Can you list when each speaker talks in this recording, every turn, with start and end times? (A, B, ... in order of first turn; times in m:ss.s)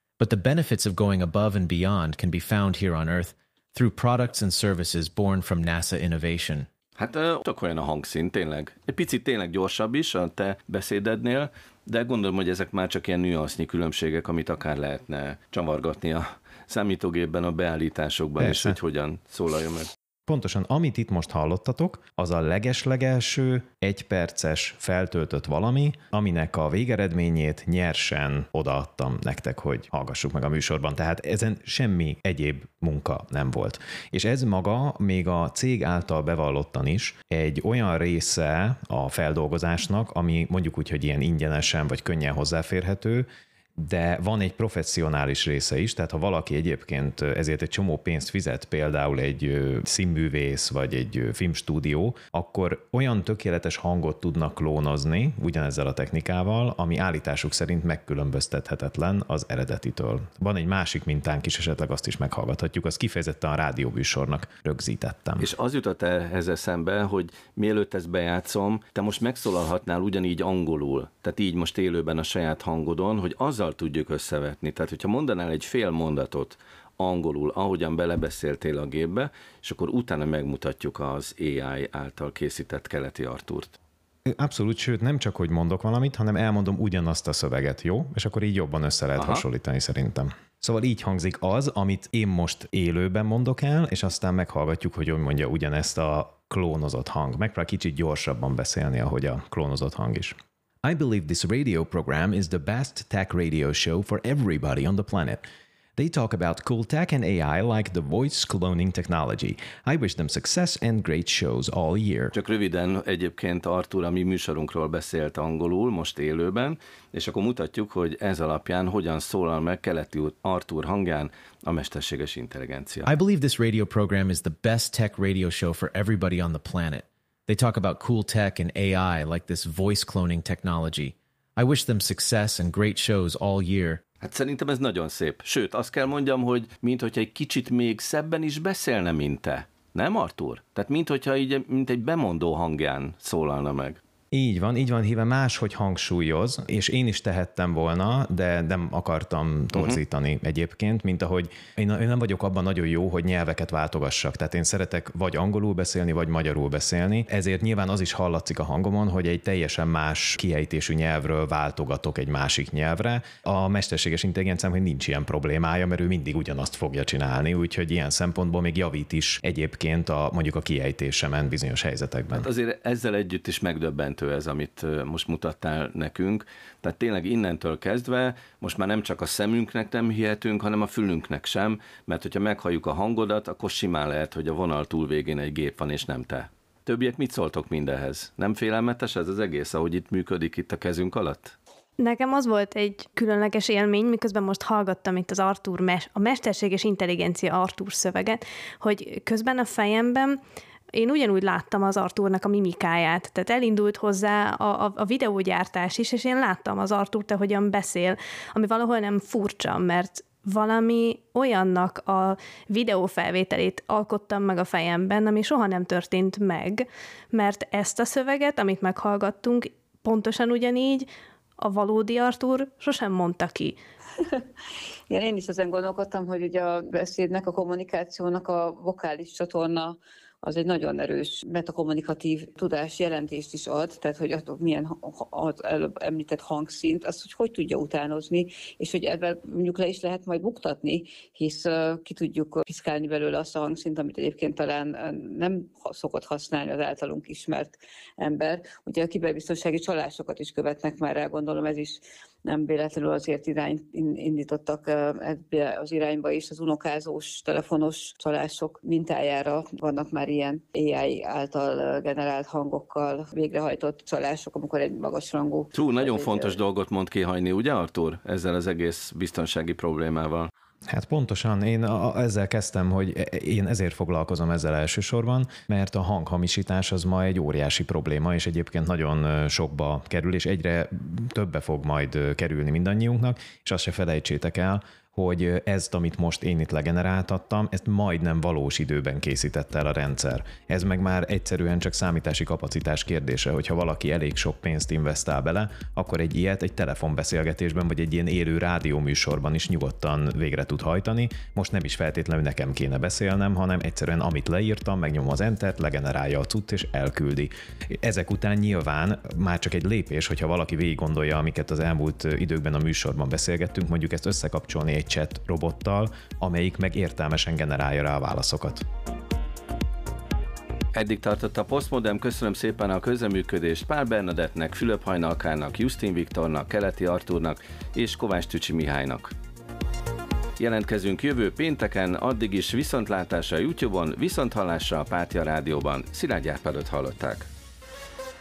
0:00.2-0:06.7 A
0:07.0-0:19.9 B
0:18.4-0:18.8 C
0:20.3-1:05.5 C
1:05.4-1:23.8 B
1:24.3-1:45.4 C
1:29.2-1:29.4 B
1:46.0-1:52.3 C
1:52.3-2:03.1 B
2:03.0-2:14.0 A
2:14.2-2:24.0 B
2:24.3-2:52.5 C
2:29.8-2:30.0 B
2:52.3-3:11.6 B
3:12.0-3:20.4 D
3:20.9-3:41.1 D
3:41.6-3:43.8 D
3:44.2-3:44.5 E
3:45.1-4:26.6 E
4:25.7-4:30.5 B
4:30.9-5:18.8 C
5:20.9-5:29.3 B
5:30.6-5:37.5 B